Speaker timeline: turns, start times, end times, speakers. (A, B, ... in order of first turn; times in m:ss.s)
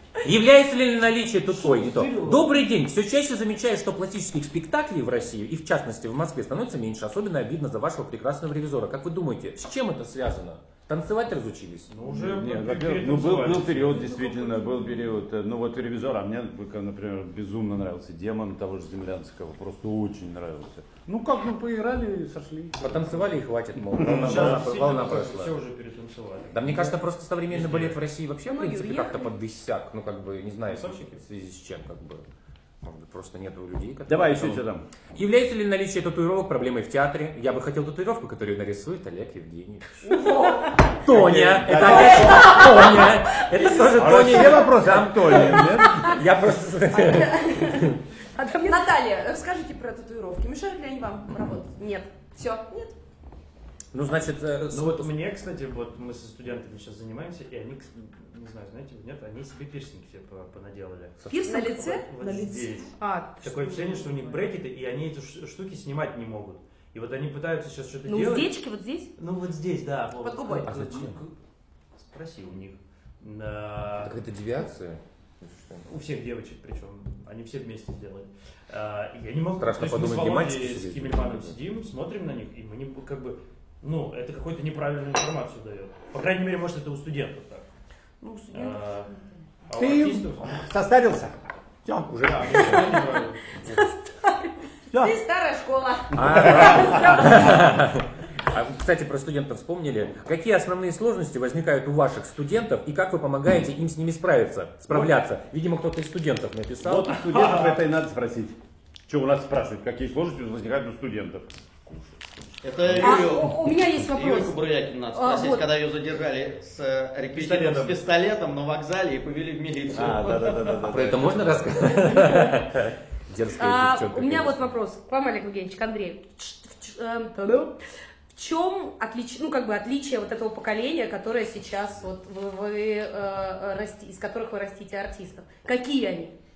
0:00.2-0:11.9 A
0:01.5-0:02.6 B
0:11.9-0:14.2 B
0:12.1-0:23.2 C
0:14.1-0:14.8 D
0:22.8-0:25.6 A
0:23.8-0:24.7 C
0:24.0-0:28.0 B
0:26.5-0:32.2 A
0:28.5-0:29.3 E
0:30.7-0:31.2 B
0:32.8-0:40.1 A
0:34.1-0:34.8 C
0:40.0-0:40.8 D
0:41.0-0:47.8 A
0:41.1-0:42.6 C
0:41.8-0:43.8 D
0:43.8-0:46.2 C
0:47.0-0:47.2 D
0:47.1-0:48.9 E
0:48.6-0:52.9 D
0:53.9-0:55.2 A
0:54.7-1:02.9 B
1:01.2-1:01.7 A
1:01.3-1:02.9 D
1:03.0-1:04.1 E
1:03.4-1:08.5 B
1:08.1-1:09.1 E
1:09.2-1:11.3 B
1:10.2-1:10.8 D
1:10.7-1:11.2 A
1:12.0-1:14.2 B
1:14.0-1:15.9 A
1:15.9-1:27.7 B
1:19.6-1:21.6 A
1:28.2-1:29.4 D
1:28.5-1:29.1 B
1:29.7-1:30.6 B
1:29.7-1:33.0 C
1:32.2-1:33.4 B
1:33.6-1:34.6 E
1:34.9-1:35.2 C
1:34.9-1:37.8 D
1:36.2-1:47.1 A
1:36.3-1:37.1 C
1:46.8-1:48.6 C
1:47.3-1:47.8 B
1:49.1-1:53.2 C
1:52.6-2:00.8 F
1:53.0-1:54.6 E
1:55.1-1:55.7 E
1:57.3-1:58.0 B
2:00.0-2:02.0 C
2:00.8-2:04.7 A
2:02.1-2:02.5 E
2:03.6-2:07.8 E
2:08.3-2:16.3 E